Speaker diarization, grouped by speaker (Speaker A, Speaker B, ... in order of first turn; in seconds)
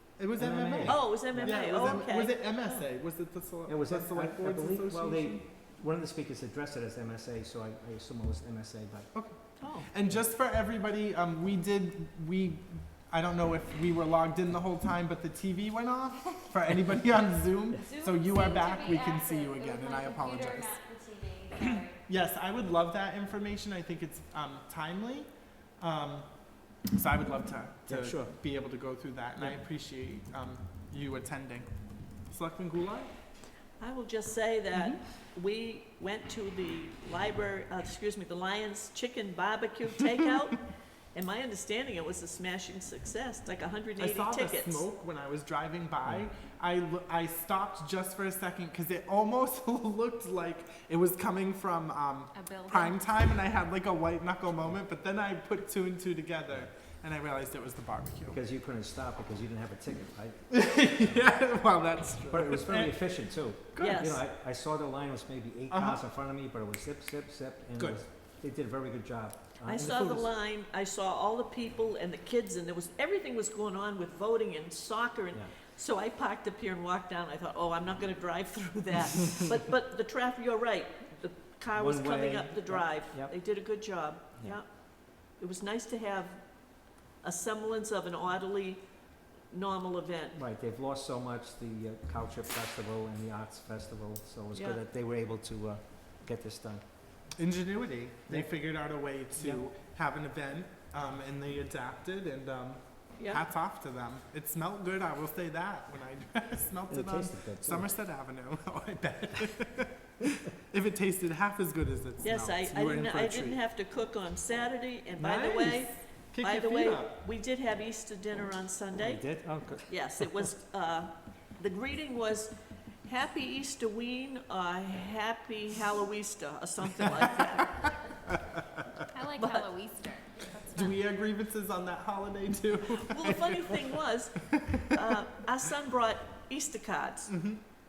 Speaker A: 0.2-5.4, 9.1-20.8, 22.0-33.1, 44.0-58.4, 60.5-63.0, 63.7-64.0, 65.7-66.0, 67.8-68.0, 97.4-113.6, 115.2-117.2, 130.7-133.6, 137.3-137.6
Speaker B: 0.4-2.0, 3.7-9.3, 27.9-28.4, 58.3-61.5, 62.3-70.3, 81.7-83.4, 90.3-96.9, 98.3-99.7, 106.9-107.9, 119.0-120.0
Speaker C: 0.9-2.9, 9.6-9.9, 33.8-44.9, 63.8-64.2, 69.7-90.4, 94.5-94.8, 112.2-119.3, 119.9-127.8, 129.4-129.7, 133.0-137.4
Speaker D: 17.8-22.0, 52.3-53.0, 129.0-131.0